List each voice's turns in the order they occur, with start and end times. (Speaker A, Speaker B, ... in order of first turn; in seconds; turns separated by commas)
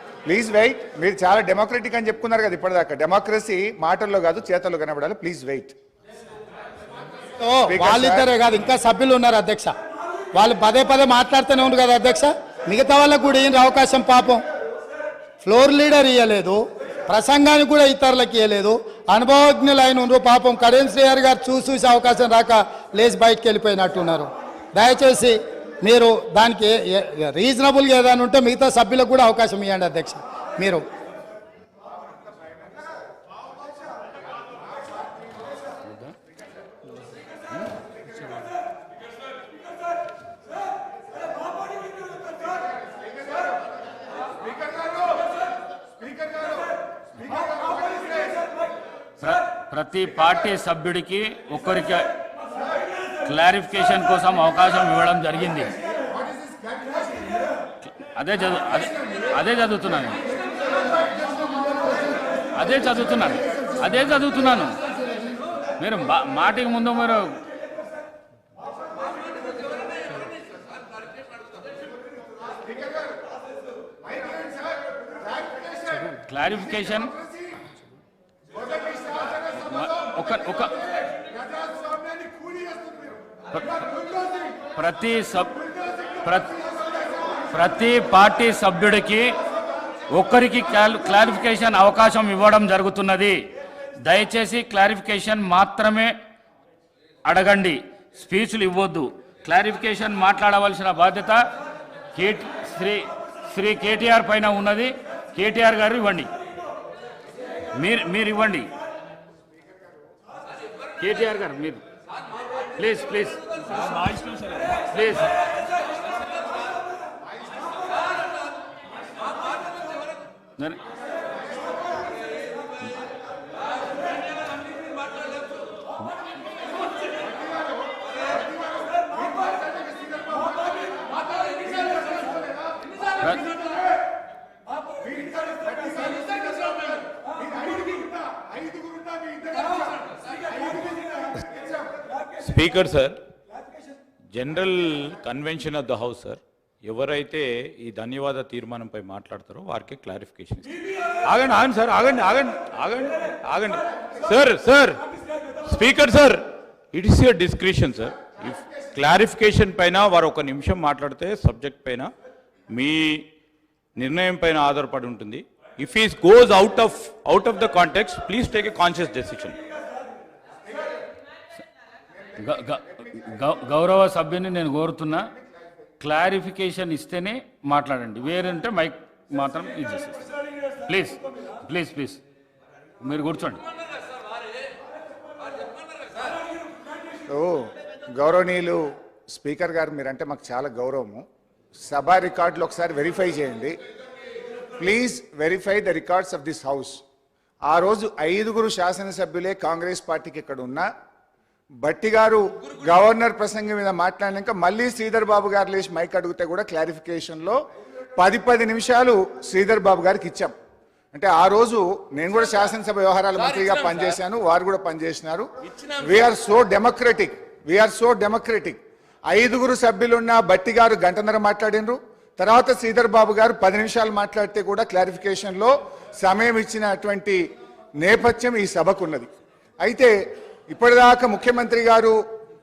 Speaker A: 0.2-5.7, Speaker B: 7.4-9.7, Speaker A: 7.7-8.3, Speaker B: 10.3-14.4, Speaker B: 15.4-30.8, Speaker C: 49.2-52.1, Speaker C: 53.2-55.7, Speaker C: 58.0-60.2, Speaker C: 62.5-64.8, Speaker C: 65.8-67.4, Speaker C: 75.9-77.1, Speaker C: 79.4-80.8, Speaker C: 83.5-83.9, Speaker C: 84.5-86.6, Speaker C: 87.5-89.4, Speaker C: 90.1-93.5, Speaker C: 94.0-96.1, Speaker C: 97.2-101.4, Speaker C: 102.1-106.3, Speaker C: 107.7-108.7, Speaker C: 111.0-111.8, Speaker C: 112.8-113.4, Speaker D: 113.8-114.8, Speaker C: 114.8-115.3, Speaker C: 133.2-133.5, Speaker D: 142.4-143.2, Speaker D: 144.3-155.0, Speaker D: 155.6-162.1, Speaker D: 162.7-163.3, Speaker D: 163.9-169.6, Speaker C: 172.4-175.3, Speaker C: 176.0-180.2, Speaker C: 180.9-182.2, Speaker C: 183.0-183.6, Speaker A: 187.3-191.2, Speaker A: 191.8-193.8, Speaker A: 194.8-197.0, Speaker A: 197.7-200.9, Speaker A: 201.8-207.6, Speaker A: 208.2-210.5, Speaker A: 211.1-218.8, Speaker A: 219.3-227.4, Speaker A: 228.0-229.3, Speaker A: 229.8-230.1, Speaker A: 230.7-232.2